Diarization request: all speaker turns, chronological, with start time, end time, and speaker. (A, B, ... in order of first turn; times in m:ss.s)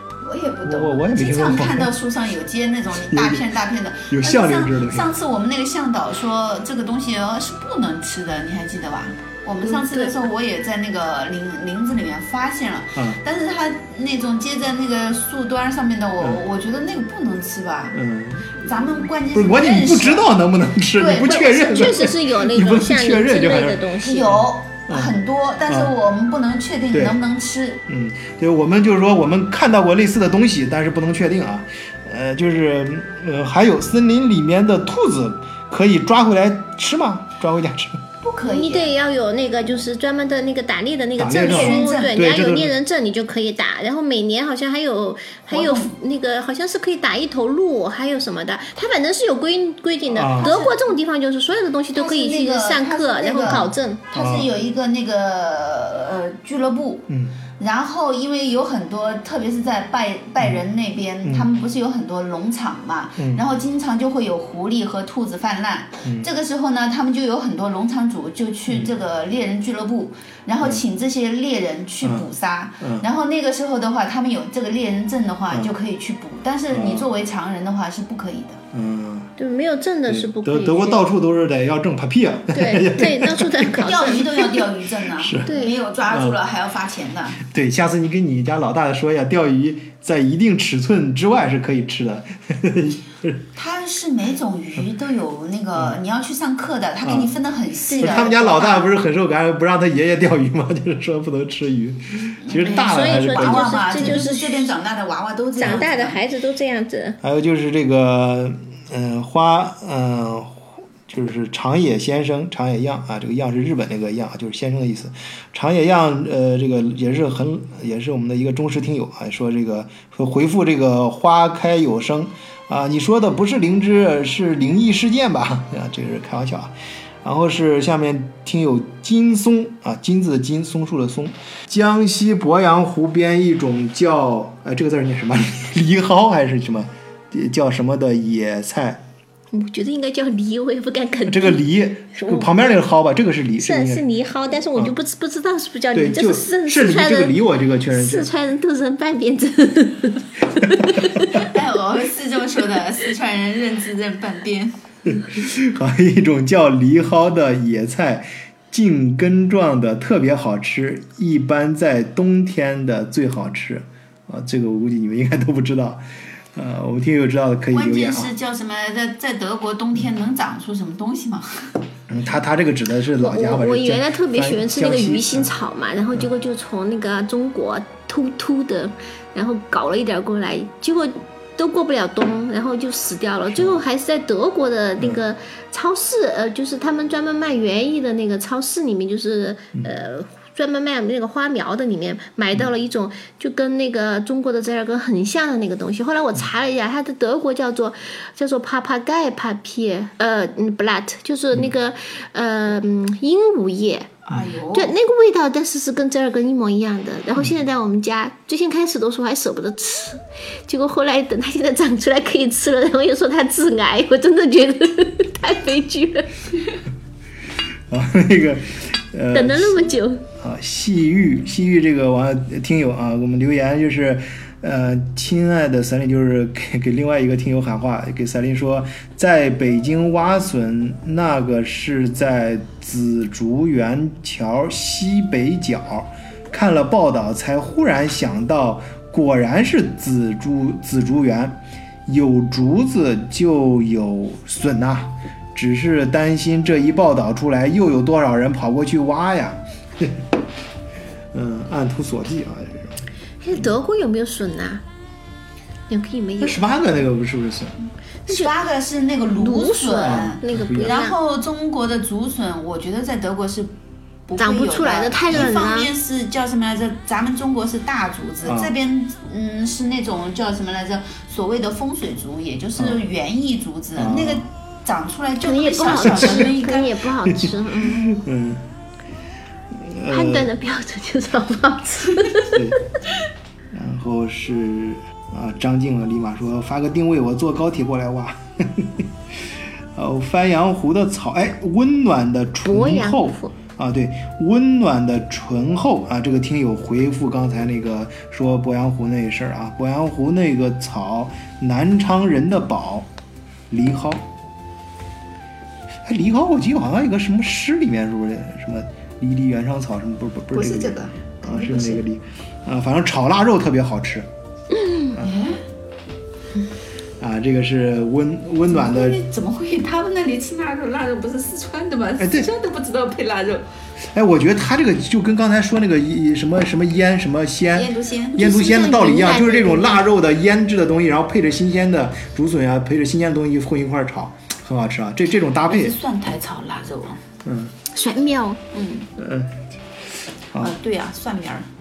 0:00.2-0:18.0 A
0:00.7-0:01.9 B
0:03.1-0:03.5 B
0:04.1-0:05.1 B
0:13.0-0:13.2 B
0:17.9-0:18.7 B
0:18.6-0:20.3 A
0:19.3-0:25.1 B
0:21.0-0:22.1 A
0:21.3-0:24.3 C
0:24.0-0:27.8 A
0:26.9-0:27.2 B
0:27.9-0:38.0 B
0:38.2-0:38.9 A
0:38.5-0:54.0 C
0:41.2-0:42.7 B
0:41.4-0:42.2 A
0:45.5-0:45.9 A
0:50.1-0:50.5 B
0:50.4-0:50.8 A
0:51.9-0:57.1 A
0:53.4-0:54.5 B
0:57.1-0:57.4 B
0:57.6-1:18.6 A
1:01.2-1:01.5 B
1:03.2-1:03.4 B
1:08.7-1:09.0 B
1:12.8-1:13.1 B
1:16.7-1:17.1 B
1:18.7-1:19.3 B
1:19.4-1:21.0 C
1:20.1-1:23.9 B
1:22.5-1:24.5 C
1:23.8-1:27.4 A
1:25.2-1:25.5 B
1:25.5-1:25.8 C
1:26.1-1:26.4 B
1:27.4-1:33.4 B
1:33.6-1:38.9 A
1:37.0-1:37.4 B
1:37.9-1:38.2 C
1:38.0-1:44.2 B
1:42.4-1:46.2 A
1:42.8-1:44.7 C
1:45.6-1:47.2 C
1:47.2-2:06.7 B
2:07.2-2:19.0 B
2:19.5-2:21.6 C
2:21.3-2:24.0 B
2:22.2-2:22.8 C
2:23.6-2:27.4 C
2:25.9-2:28.3 B
2:27.9-2:31.5 C
2:30.6-2:31.1 B
2:31.4-2:34.8 A
2:35.1-2:46.0 B
2:46.5-2:48.3 B
2:47.7-2:51.7 A
2:52.1-2:55.5 B
2:53.2-3:36.7 C
3:03.5-3:03.8 B
3:24.3-3:25.0 A
3:37.9-4:10.2 B
3:39.3-3:40.2 C
4:11.3-4:13.0 B
4:13.4-4:14.8 C
4:15.9-4:16.6 C
4:16.4-4:17.8 B
4:18.3-4:23.7 A
4:19.4-4:21.2 C
4:20.0-4:21.0 B
4:24.3-4:37.0 A
4:24.4-4:25.9 C
4:28.4-4:28.7 B
4:34.0-4:34.4 B
4:35.4-4:38.0 C
4:37.3-4:38.6 B
4:39.7-4:40.5 B
4:40.1-4:42.6 C
4:42.5-4:42.8 B
4:43.7-4:49.0 B
4:50.0-5:03.1 B
4:52.7-4:53.5 C
5:03.7-5:04.3 B
5:06.0-5:14.3 B
5:10.5-5:12.0 A
5:14.8-5:15.1 C
5:15.2-5:15.6 A
5:17.2-5:19.2 B
5:18.7-5:23.6 A
5:22.2-5:22.5 B
5:24.1-5:36.0 B
5:27.7-5:28.5 A
5:28.4-5:30.0 C
5:35.7-5:37.2 A
5:37.4-5:37.8 B
5:37.9-5:38.6 C
5:38.7-5:39.1 A
5:39.2-5:39.6 B
5:40.6-5:41.7 A